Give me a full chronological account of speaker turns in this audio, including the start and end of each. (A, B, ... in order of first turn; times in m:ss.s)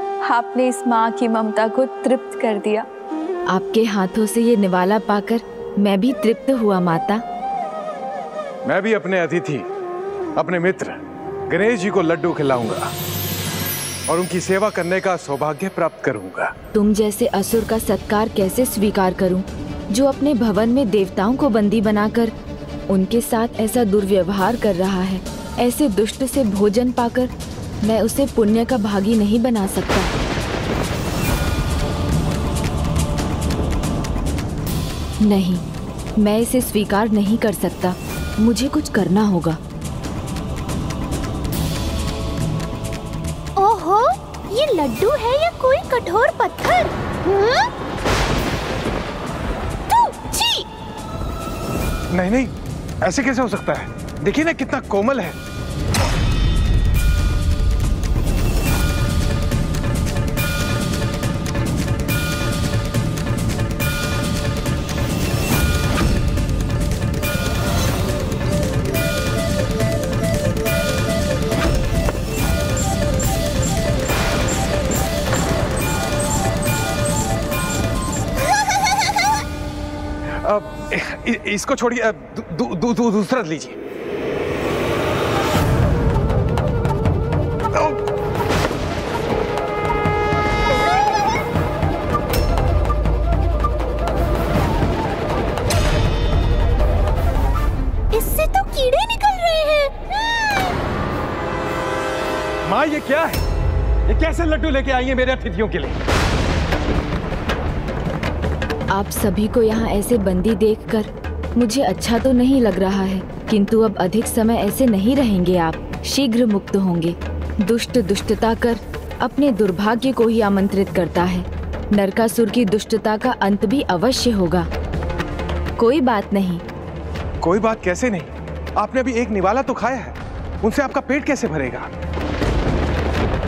0:00.2-0:02.8 A
0:03.5-0:07.2 B
0:08.6-0:09.7 C
0:10.4-0:12.9 C
0:14.1-0:16.5 C
0:16.7-0:22.3 B
0:22.9-0:27.3 B
0:27.8-0:30.1 B
0:35.2-0:35.6 B
0:36.2-0:39.6 B
0:43.6-0:47.7 D
0:49.9-0:50.7 D
0:52.1-0:55.4 C
1:20.4-1:23.8 C
1:27.7-1:28.0 C
1:38.1-1:40.8 D
1:42.6-1:43.4 C
1:44.1-1:46.0 C
1:48.9-2:04.7 B
2:05.8-2:06.6 B
2:07.4-2:11.9 C